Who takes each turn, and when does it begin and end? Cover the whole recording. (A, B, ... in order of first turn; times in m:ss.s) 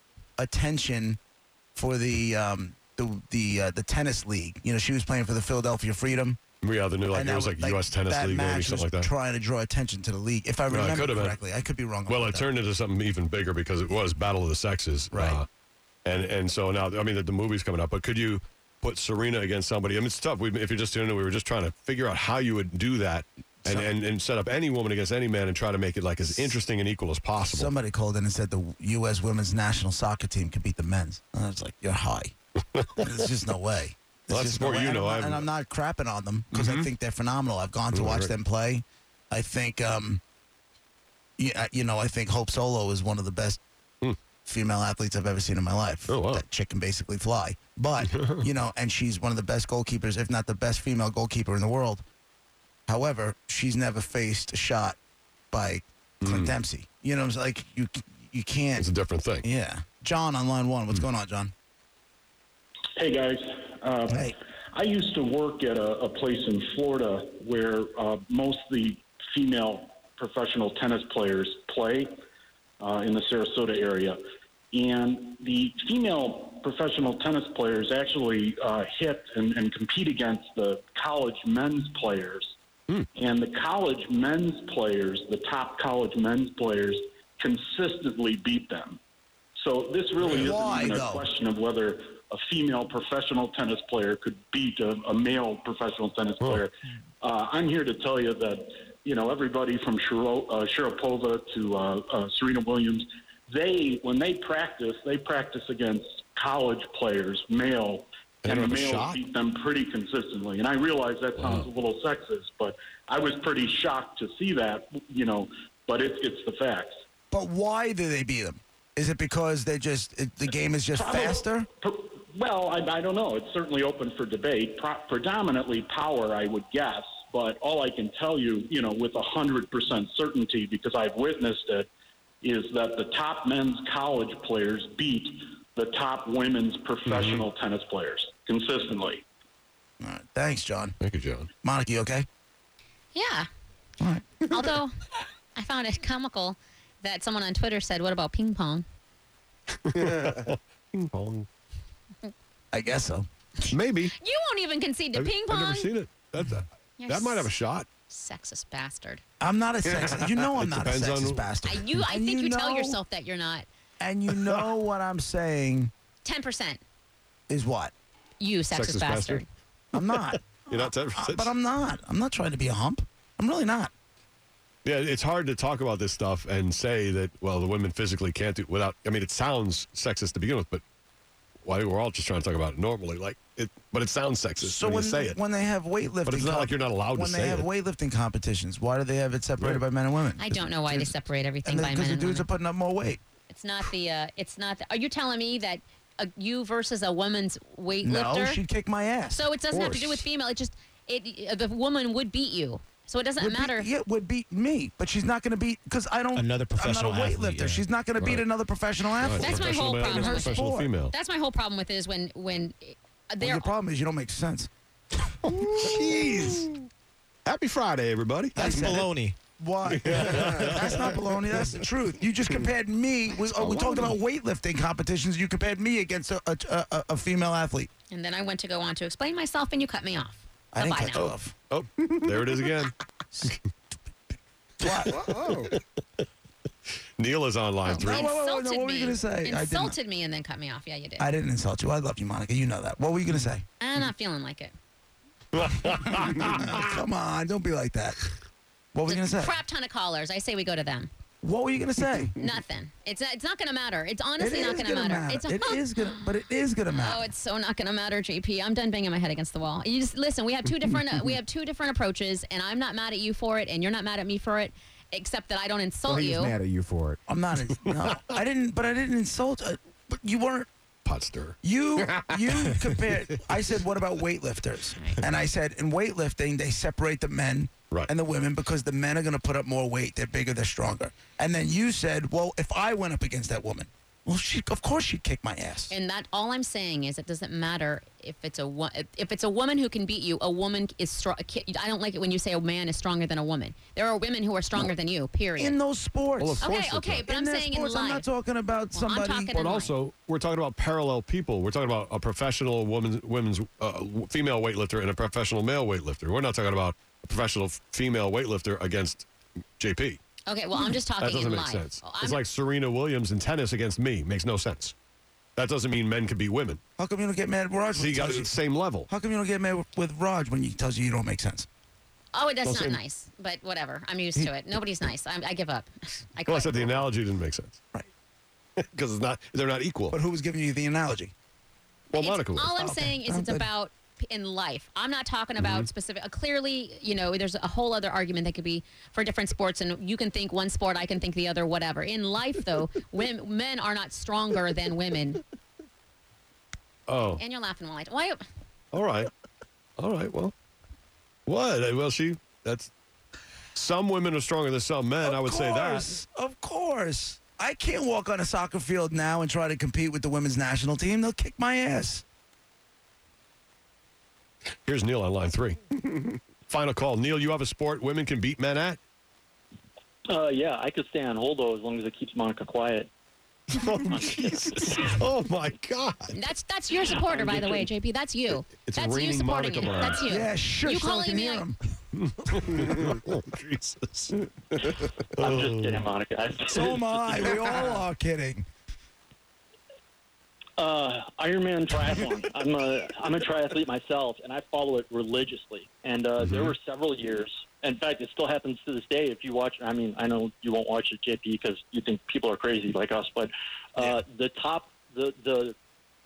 0:00.4-0:01.2 A
0:01.7-0:06.4 A
0:06.6-0:09.1 B
0:07.1-0:12.5 A
0:10.7-0:11.4 B
0:12.1-0:15.4 B
0:15.1-0:15.4 A
0:16.0-0:27.7 B
0:23.6-0:23.9 A
0:27.4-0:32.3 A
0:32.8-0:33.0 B
0:33.0-0:40.2 A
0:34.3-0:35.5 B
0:36.5-0:36.9 B
0:37.9-0:38.3 B
0:41.4-0:43.6 A
0:44.4-0:52.0 A
0:46.1-0:46.4 B
0:52.9-0:55.0 A
0:55.5-0:58.9 A
0:56.2-0:56.5 B
0:58.8-0:59.4 B
0:59.4-1:01.5 A
1:03.0-1:12.1 C
1:12.8-1:14.2 C
1:14.7-1:22.5 C
1:23.1-1:29.0 C
1:29.6-1:56.9 C
1:30.2-1:31.2 A
1:48.4-1:49.2 B
1:51.4-1:51.6 B
1:57.3-2:01.7 A
2:00.9-2:11.9 C
2:12.4-2:19.2 C
2:17.1-2:17.4 B
2:20.0-2:20.9 A
2:21.0-2:21.5 B
2:21.6-2:22.2 A
2:23.1-2:23.5 D
2:24.0-2:24.4 A
2:24.4-2:28.8 D
2:29.8-2:31.5 B
2:32.7-2:33.2 A
2:33.6-2:35.9 D
2:33.7-2:34.1 B
2:35.1-2:37.9 B
2:37.0-2:37.5 D
2:38.1-2:39.2 D
2:39.4-2:43.0 A
2:40.4-2:41.4 B
2:41.6-2:43.7 D
2:44.0-2:45.9 A
2:46.2-2:46.8 D
2:47.5-2:47.9 A
2:48.4-2:49.5 D
2:48.7-2:49.4 B
2:49.9-2:53.9 A
2:50.7-2:51.5 B
2:54.8-3:00.8 B
3:01.6-3:05.4 B
3:04.6-3:13.2 A
3:06.2-3:07.7 B
3:10.4-3:12.5 D
3:13.5-3:18.6 D
3:18.0-3:19.4 A
3:19.3-3:23.9 D
3:19.7-3:20.2 B
3:23.4-3:30.9 A
3:26.3-3:27.8 E
3:29.2-3:31.1 B
3:29.4-3:33.7 D
3:33.4-3:34.7 A
3:35.5-3:36.6 A
3:35.6-3:36.7 E
3:37.4-3:38.9 B
3:38.6-3:47.9 A
3:38.6-3:39.4 E
3:39.8-3:41.0 B
3:40.1-3:40.7 E
3:43.4-3:44.2 E
3:48.1-3:51.3 D
3:50.7-3:51.5 A
3:51.1-3:53.6 B
3:54.8-3:55.4 A
3:54.8-3:55.8 B
3:57.2-3:58.3 B
3:57.8-4:01.3 D
3:58.0-4:00.0 A
4:01.2-4:03.6 A
4:03.8-4:04.7 D
4:05.5-4:07.0 B
4:05.8-4:08.3 A
4:08.9-4:09.6 A
4:09.0-4:11.1 D
4:11.4-4:12.3 A
4:12.4-4:16.3 D
4:14.4-4:17.3 A
4:16.9-4:26.6 D
4:26.1-4:27.2 E
4:27.3-4:30.7 A
4:31.0-4:31.6 B
4:31.6-4:45.9 A
4:45.9-4:55.8 D
4:55.6-4:56.7 A
4:56.4-4:57.3 B
4:56.6-4:58.3 D
4:57.2-4:59.5 A
4:58.9-4:59.9 D
4:59.5-5:09.2 B
5:09.8-5:10.2 B
5:10.5-5:12.4 D
5:11.2-5:14.9 B
5:15.6-5:16.8 B
5:17.0-5:21.7 A
5:17.9-5:19.1 B
5:22.3-5:26.9 D
5:22.6-5:23.0 B
5:26.4-5:27.8 B
5:28.8-5:30.2 B
5:30.1-5:31.3 A
5:32.1-5:45.4 D
5:32.1-5:32.7 B
5:32.7-5:33.7 A
5:35.6-5:35.9 B
5:47.1-5:47.4 B
5:47.4-5:48.4 D
5:48.9-5:49.3 B
5:50.0-5:50.5 B
5:51.4-5:52.9 B
5:53.7-5:56.2 B
5:55.2-6:02.2 A
6:04.8-6:09.0 B
6:10.3-6:13.1 F
6:13.7-6:16.4 B
6:13.9-6:15.1 F
6:16.3-6:21.6 D
6:17.3-6:17.9 F
6:18.8-6:20.2 B
6:20.2-6:21.8 A
6:22.1-6:26.0 B
6:25.2-6:27.7 F
6:26.7-6:28.7 A
6:30.8-6:45.7 F
6:36.4-6:36.7 B